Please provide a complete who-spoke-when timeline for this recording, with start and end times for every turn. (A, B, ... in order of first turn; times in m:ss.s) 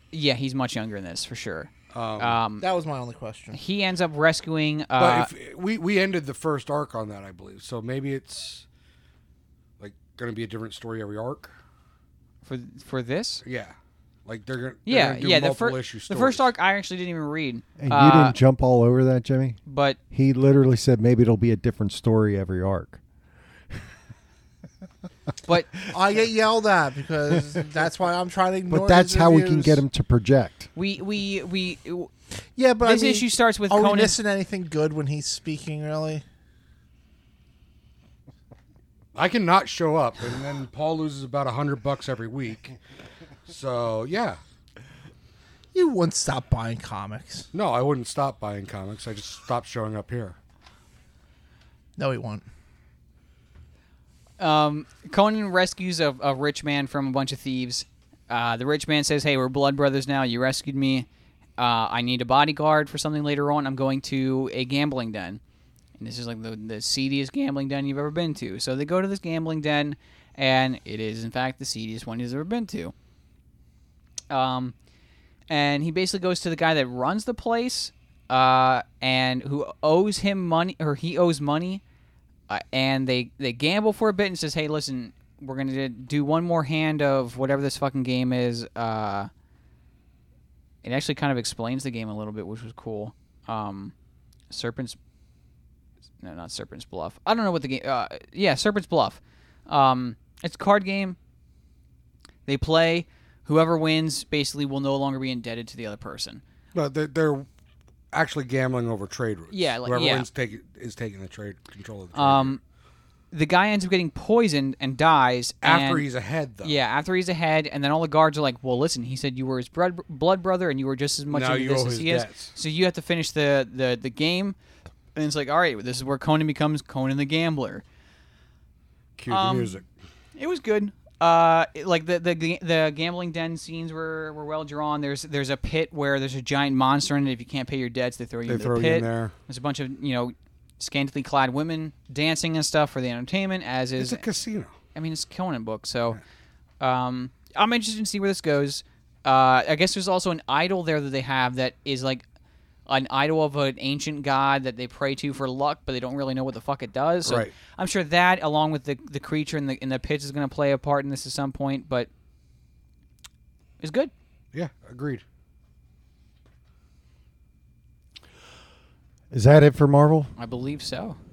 0:00.1-0:02.6 A
0:01.9-0:02.4 B
0:02.6-0:03.6 C
0:03.5-0:05.3 A
0:05.0-0:08.6 B
0:09.8-0:11.6 B
0:12.4-0:13.4 A
0:13.4-0:16.5 B
0:14.9-0:18.4 A
0:17.8-0:19.6 D
0:19.6-0:20.0 A
0:20.1-0:23.0 D
0:25.8-0:29.8 C
0:28.7-0:30.7 D
0:30.7-0:32.1 A
0:32.6-0:36.2 C
0:32.8-0:34.2 A
0:39.2-0:42.8 B
0:43.5-0:44.4 B
0:45.7-0:47.5 C
0:47.5-0:50.4 B
0:52.0-0:52.4 C
0:54.4-1:01.1 A
1:01.6-1:05.4 A
1:06.0-1:12.9 A
1:14.3-1:14.7 A
1:15.5-1:21.8 A
1:22.5-1:29.3 A
1:30.8-1:33.9 A
1:34.5-1:35.0 A
1:36.2-1:41.2 A
1:42.5-1:46.4 A
1:46.7-1:47.5 B
1:48.1-1:52.6 B
1:49.5-1:50.3 A
1:52.1-1:52.6 A
1:53.3-1:56.0 A
1:55.6-1:56.7 B
1:56.6-2:04.6 A
2:01.3-2:02.6 B
2:05.2-2:07.8 A
2:09.2-2:09.9 B
2:09.3-2:09.8 A
2:10.4-2:24.2 A
2:18.4-2:19.3 B
2:24.0-2:24.7 B
2:24.9-2:26.2 A
2:26.8-2:32.2 A
2:32.9-2:42.1 A
2:37.2-2:37.5 B
2:43.8-2:44.1 A
2:44.5-2:45.2 B
2:49.3-2:50.3 D
2:50.4-2:51.2 A